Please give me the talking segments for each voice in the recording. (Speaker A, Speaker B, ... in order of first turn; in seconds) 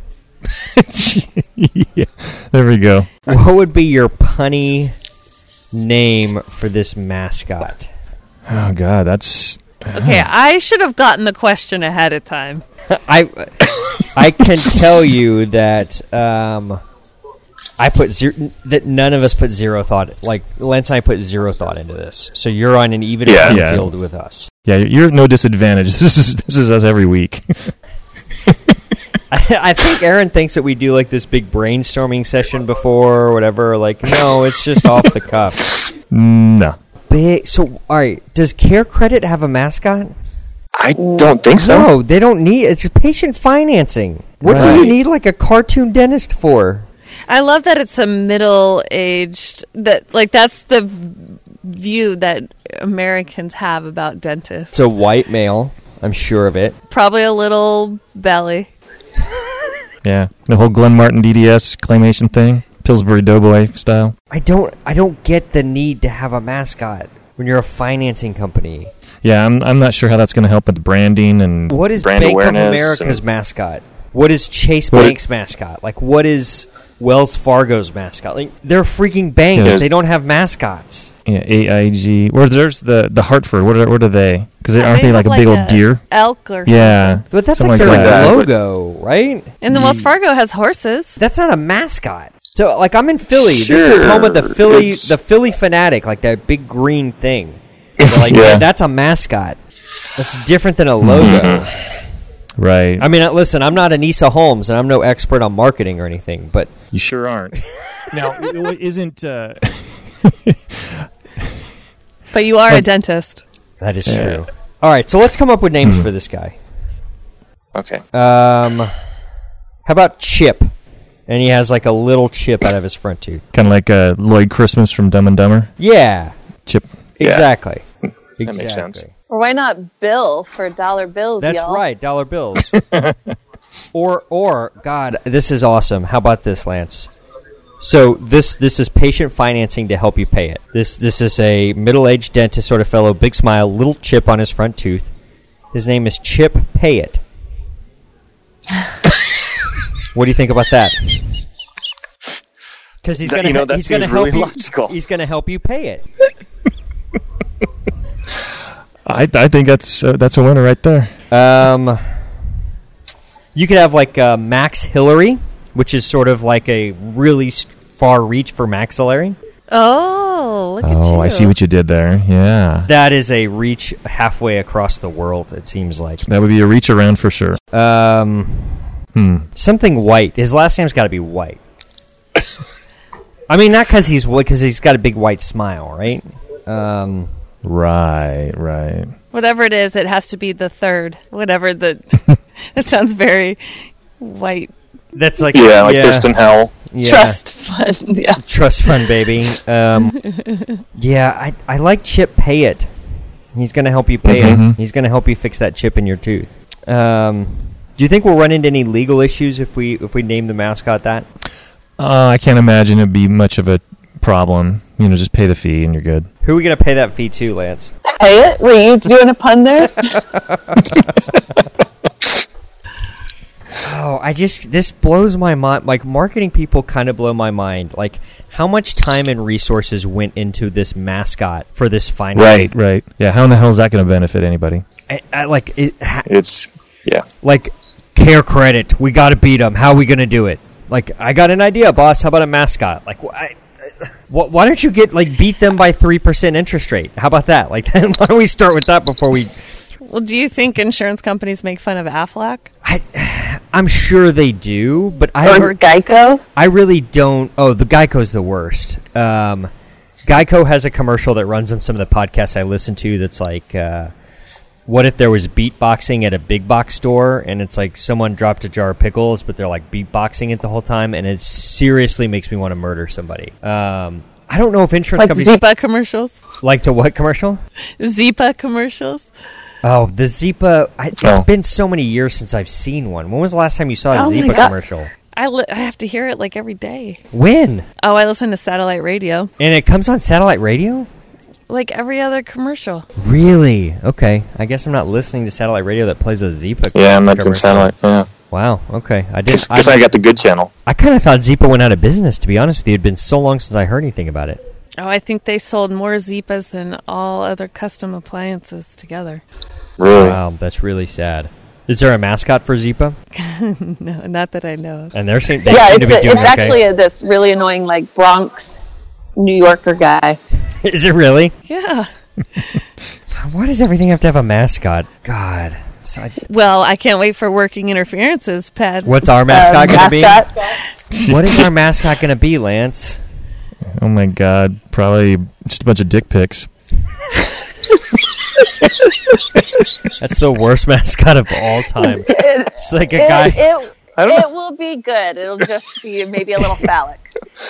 Speaker A: 0.5-3.2, 8.4-10.3, 23.4-23.9, 24.6-27.7, 36.1-36.8, 44.4-44.9, 60.0-64.1, 69.2-71.8, 79.5-79.8, 81.2-86.0, 86.6-88.4, 89.7-90.1, 101.0-101.5, 102.6-103.1, 106.9-107.5, 108.1-111.5, 115.8-116.1, 123.5-125.7, 159.1-161.1, 170.8-172.9, 176.2-177.6, 179.1-179.5, 187.6-189.1, 204.2-204.8, 212.0-216.3, 232.3-234.8, 331.1-331.6, 333.9-336.7
Speaker B: 3.3-4.9, 5.7-7.9, 12.9-16.8, 17.8-24.5, 29.3-35.6, 37.1-40.1, 41.5-46.9, 54.7-56.8, 64.3-68.9, 71.7-81.1, 87.3-89.6, 91.2-99.6, 100.2-101.9, 103.0-106.7, 113.8-116.5, 118.1-118.9, 119.8-120.7, 121.3-123.4, 125.8-126.3, 127.2-127.8, 128.4-129.1, 131.4-132.8, 133.9-137.1, 137.8-145.1, 145.7-147.2, 150.1-151.3, 153.0-156.0, 161.3-162.0, 163.5-169.4, 172.8-176.2, 177.7-178.9, 179.6-181.6, 183.5-187.3, 195.1-197.4, 198.4-200.2, 201.0-202.9, 203.5-211.2, 216.4-217.9, 220.1-221.0, 223.8-232.7, 235.1-236.3, 237.4-249.7, 252.8-255.8, 256.5-259.7, 260.2-264.1, 264.9-275.6, 276.6-277.6, 279.8-285.1, 287.3-287.9, 289.6-291.1, 293.2-297.9, 298.5-300.1, 300.9-304.6, 310.1-313.1, 315.1-316.9, 320.8-321.5, 323.3-326.4, 329.0-330.4, 331.2-333.2, 340.2-343.6
Speaker C: 9.9-12.6, 47.3-54.9, 56.9-58.7, 84.8-87.2, 89.6-91.2, 112.3-113.4, 169.7-171.5, 189.3-194.7, 197.2-197.5, 200.2-200.8, 250.0-252.7, 275.4-276.4, 278.0-279.2, 285.3-287.2, 288.0-289.5, 291.7-293.1, 305.0-309.4, 313.3-315.1, 321.7-322.1, 326.5-329.3
Speaker D: 23.2-23.6, 40.8-41.9, 44.5-44.9, 71.9-73.2, 87.8-88.5, 93.4-95.1, 98.0-98.6, 101.1-101.7, 114.1-114.4, 117.7-118.0, 127.2-127.5, 128.4-129.0, 132.8-133.1, 153.2-154.9, 195.5-196.7, 204.3-204.6, 236.3-237.2, 296.9-298.3, 299.5-300.7, 310.0-310.4, 344.2-344.5
Speaker E: 41.0-41.3, 129.3-131.8, 197.0-198.4, 218.1-220.2, 255.4-256.4, 275.2-275.6, 284.1-284.7, 315.6-318.7, 319.4-320.4, 329.5-330.6, 342.2-347.3